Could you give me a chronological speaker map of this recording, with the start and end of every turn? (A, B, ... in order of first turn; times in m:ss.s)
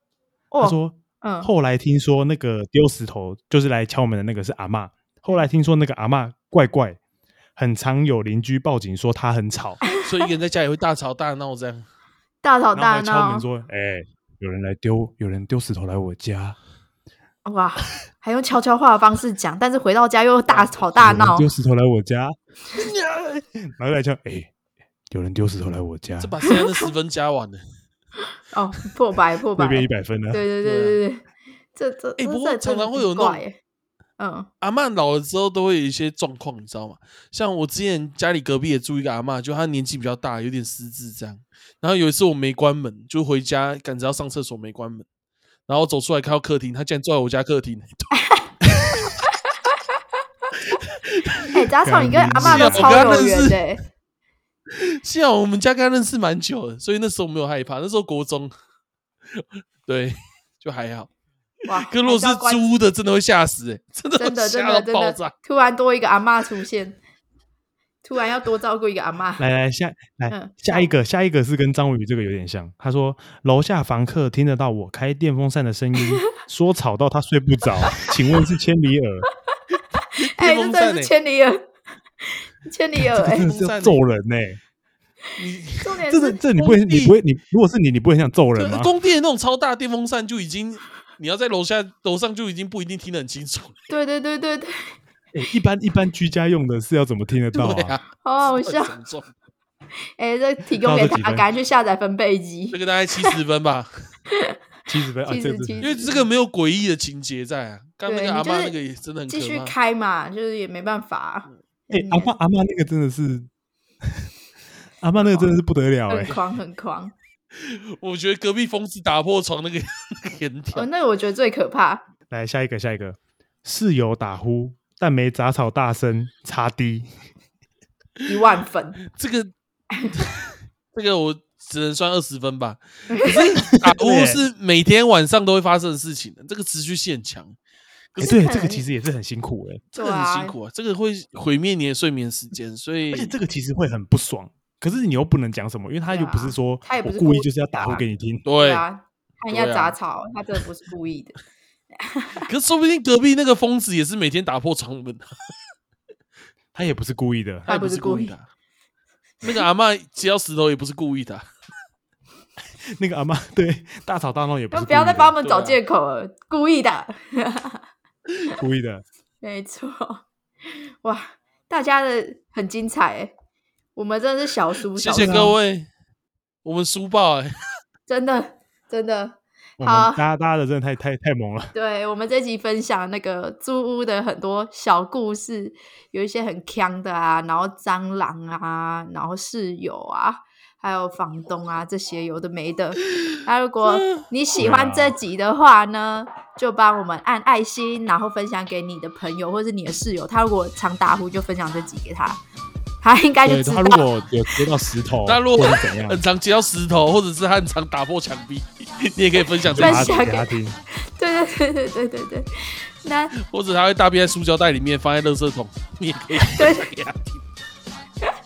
0:00.5-0:01.5 A
0:00.6-0:07.0 B
0:07.6-0:09.8 B
0:10.0-0:11.8 C
0:12.4-0:13.5 A
0:12.7-0:16.6 B
0:17.4-0:21.5 A
0:20.5-0:20.9 C
0:21.0-0:24.5 B
0:25.1-0:26.3 B
0:26.2-0:27.6 C
0:26.5-0:26.9 A
0:28.5-0:33.6 A
0:29.6-0:31.0 B
0:32.2-0:33.4 C
0:34.2-0:34.5 A
0:34.6-0:45.0 C
0:45.7-0:48.1 C
0:48.1-0:48.5 A
0:48.7-0:49.0 C
0:49.2-0:49.8 A
0:50.8-0:51.5 C
0:51.5-0:53.8 A
0:51.8-0:53.3 B
0:52.3-0:53.6 C
0:54.7-0:58.5 C
0:59.3-1:01.1 C
1:01.7-1:02.6 A
1:01.7-1:05.3 C
1:04.2-1:07.0 A
1:08.0-1:09.4 A
1:09.4-1:19.3 B
1:10.3-1:10.9 A
1:20.0-1:21.7 A
1:20.2-1:21.1 C
1:22.2-1:23.5 A
1:23.0-1:24.6 B
1:23.3-1:24.0 C
1:25.4-1:26.0 C
1:25.8-1:26.7 A
1:26.1-1:28.9 B
1:26.6-1:27.2 C
1:28.6-1:33.8 C
1:33.9-1:34.9 A
1:35.3-1:38.0 B
1:37.5-1:39.3 C
1:38.2-1:38.9 A
1:40.2-1:43.4 A
1:40.8-1:41.5 B
1:42.7-1:43.9 C
1:44.9-1:45.8 B
1:45.3-1:46.3 A
1:45.8-1:49.7 C
1:48.1-1:48.8 A
1:49.3-1:52.3 A
1:51.9-1:53.5 B
1:54.0-1:54.3 B
1:55.0-1:56.4 B
1:56.1-1:57.1 A
1:57.5-2:00.9 C
2:00.7-2:02.0 A
2:02.3-2:07.1 B
2:08.3-2:09.0 A
2:09.1-2:09.5 C
2:10.1-2:17.6 C
2:13.1-2:13.4 A
2:13.6-2:14.4 B
2:18.1-2:18.4 C
2:18.2-2:18.8 A
2:18.2-2:19.8 B
2:20.0-2:20.6 A
2:20.0-2:23.3 C
2:23.1-2:28.5 B
2:26.1-2:28.0 A
2:28.4-2:28.8 C
2:28.6-2:31.4 A
2:29.5-2:30.0 C
2:32.0-2:32.5 A
2:32.4-2:35.5 C
2:36.7-2:37.7 B
2:37.7-2:38.4 C
2:37.7-2:38.3 A
2:39.4-2:41.4 C
2:43.0-2:45.4 B
2:44.7-2:47.8 A
2:45.4-2:45.8 C
2:48.6-2:49.0 B
2:49.4-2:50.2 A
2:50.8-2:53.3 A
2:54.0-2:55.6 A
2:54.9-2:55.9 C
2:55.2-2:55.5 B
2:56.6-2:57.6 C
2:58.1-3:00.2 A
2:59.8-3:01.8 B
3:01.7-3:22.4 A
3:13.8-3:14.2 C
3:14.6-3:15.2 B
3:23.0-3:24.1 A
3:23.4-3:26.2 B
3:25.3-3:30.2 C
3:29.7-3:30.8 B
3:29.8-3:33.3 A
3:33.4-3:37.4 C
3:36.5-3:36.9 A